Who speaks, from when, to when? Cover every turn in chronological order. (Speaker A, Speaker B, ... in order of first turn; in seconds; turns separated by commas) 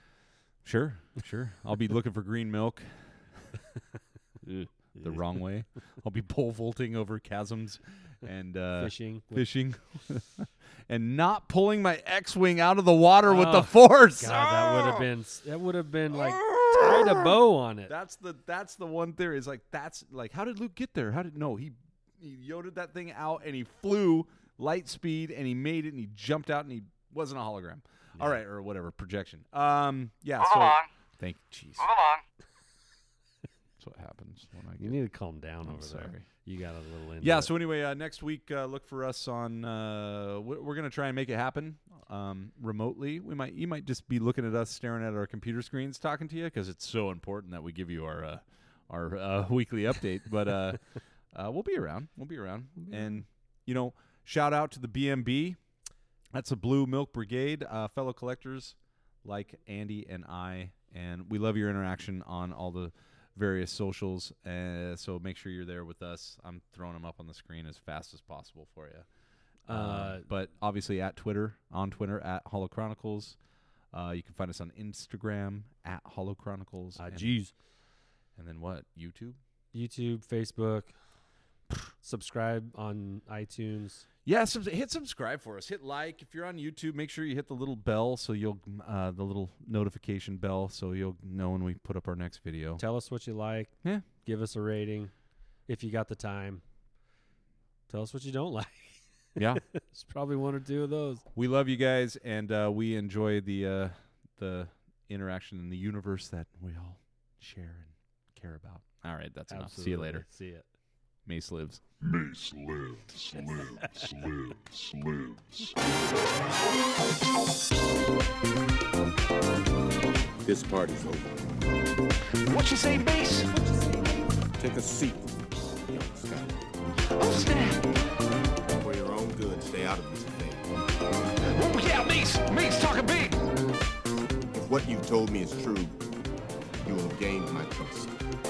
Speaker A: 0.6-3.5, Speaker A: 4.5-15.1, Speaker B: 8.8-9.5, Speaker B: 13.2-17.9, Speaker A: 16.2-17.3, Speaker A: 17.9-31.9, Speaker C: 30.5-30.9, Speaker C: 31.9-32.2, Speaker A: 33.8-35.0, Speaker B: 34.8-37.5, Speaker A: 35.6-36.3, Speaker A: 37.2-55.6, Speaker A: 56.3-69.1, Speaker B: 69.7-70.3, Speaker A: 69.7-73.4, Speaker A: 73.9-77.3, Speaker B: 77.0-77.5, Speaker A: 78.3-79.4, Speaker B: 79.7-80.9, Speaker B: 82.0-84.1, Speaker A: 84.2-92.8, Speaker B: 92.8-95.1, Speaker B: 95.7-96.6, Speaker B: 97.9-101.2, Speaker A: 99.4-99.6, Speaker A: 101.3-110.3, Speaker B: 109.5-110.7, Speaker A: 111.3-111.8, Speaker D: 112.0-115.9, Speaker E: 120.4-121.4, Speaker C: 122.4-123.7, Speaker E: 124.6-126.6, Speaker C: 127.0-127.9, Speaker E: 128.7-130.8, Speaker C: 131.4-133.4, Speaker E: 134.5-136.1, Speaker E: 136.8-138.1